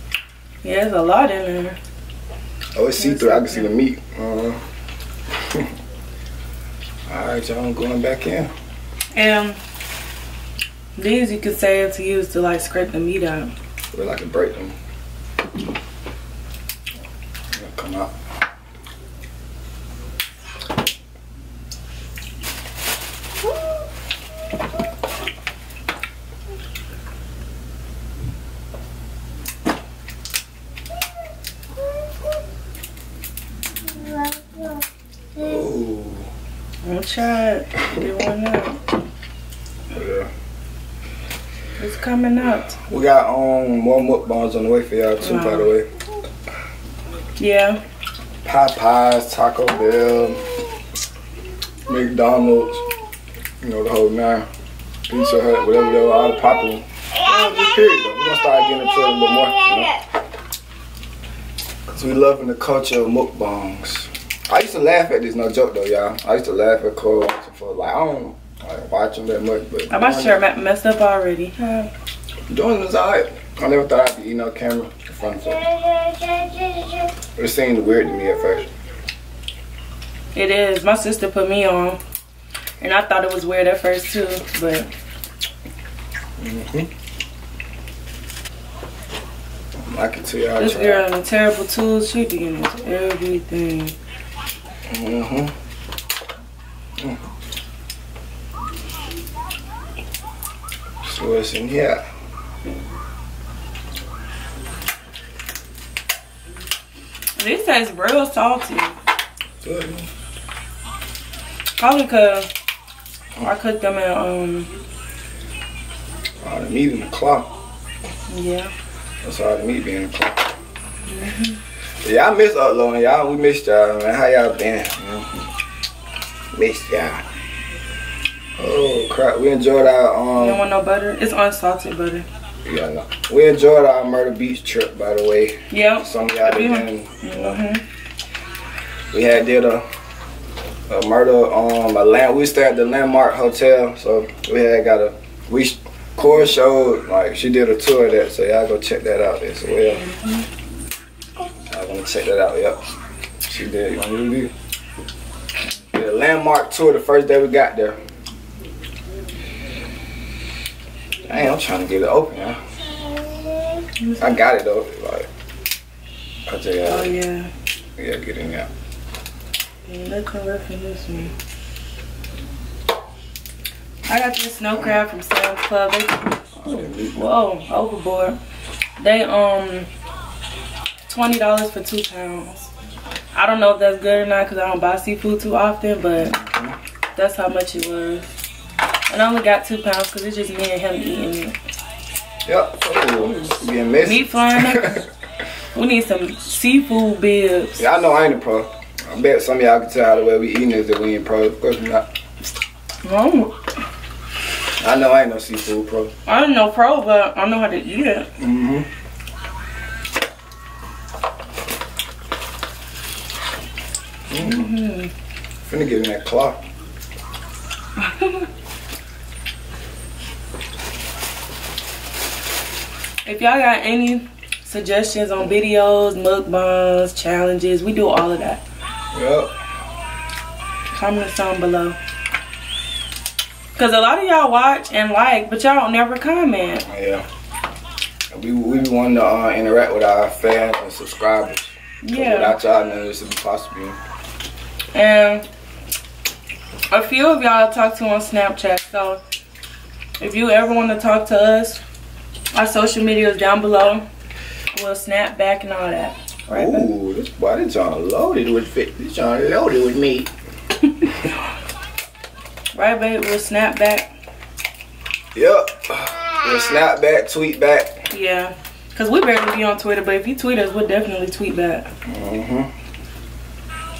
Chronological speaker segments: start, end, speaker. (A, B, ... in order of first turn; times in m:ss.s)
0:00.6-0:01.8 A
0:02.8-0:04.6 B
0:03.0-0:03.7 A
0:05.3-0:05.7 B
0:07.1-0:08.5 B
0:09.1-0:09.6 A
0:11.0-0:13.5 A
0:13.9-0:14.8 B
0:17.5-0:18.1 B
0:35.4-0:36.3 B
0:36.8-0:38.8 A
0:39.9-0:40.3 B
0:41.8-0:42.8 A
0:42.9-0:45.9 B
0:45.2-0:45.7 A
0:47.4-0:47.8 A
0:48.4-0:50.5 B
0:51.9-0:52.8 B
0:53.6-0:54.5 B
0:55.1-1:00.0 B
1:01.9-1:10.4 B
1:09.9-1:11.9 A
1:12.5-1:15.7 B
1:17.4-1:18.7 B
1:20.3-1:22.0 A
1:22.8-1:24.9 A
1:26.4-1:26.9 B
1:29.8-1:31.1 B
1:30.6-1:33.9 A
1:34.9-1:35.5 B
1:37.0-1:37.2 B
1:41.0-1:42.0 B
1:47.4-1:49.0 A
1:49.6-1:50.1 B
1:51.8-1:52.5 A
1:53.4-1:54.7 A
1:56.4-1:57.5 B
1:58.3-1:58.7 A
1:59.2-2:00.5 B
2:01.1-2:01.6 A
2:02.0-2:05.3 B
2:06.5-2:07.2 B
2:08.6-2:10.6 B
2:10.4-2:12.2 A
2:12.6-2:17.6 B
2:15.7-2:17.8 A
2:19.1-2:19.8 B
2:20.9-2:30.0 B
2:29.9-2:30.4 A
2:31.7-2:32.9 B
2:33.4-2:34.5 B
2:35.9-2:38.0 B
2:41.3-2:42.6 B
2:44.0-2:44.4 A
2:44.2-2:45.3 B
2:46.5-2:47.1 B
2:46.8-2:47.5 A
2:48.0-2:48.7 B
2:49.9-2:51.3 A
2:54.1-2:58.4 A
2:56.6-2:57.3 B
2:59.0-2:59.9 A
3:01.1-3:02.7 A
3:03.3-3:06.4 A
3:06.2-3:06.8 B
3:07.1-3:08.3 A
3:09.1-3:11.5 A
3:12.5-3:15.0 B
3:14.0-3:15.0 A
3:15.7-3:17.8 A
3:17.8-3:22.0 B
3:23.0-3:23.5 A
3:24.8-3:26.1 B
3:26.2-3:28.3 A
3:28.4-3:28.9 B
3:34.3-3:34.8 B
3:34.4-3:35.1 A
3:35.7-3:36.6 B
3:38.0-3:38.5 A
3:43.2-3:48.6 A
3:49.1-3:49.5 B
3:50.9-3:52.0 A
3:53.8-3:56.9 A
3:56.9-3:57.2 B
3:58.3-4:04.0 B
4:02.0-4:02.6 A
4:04.9-4:05.5 A
4:06.9-4:09.2 A
4:10.2-4:11.8 A
4:12.5-4:14.0 A
4:14.7-4:16.9 A
4:16.5-4:20.3 B
4:22.7-4:24.1 A
4:25.3-4:28.0 B
4:28.1-4:31.9 A
4:32.0-4:32.7 B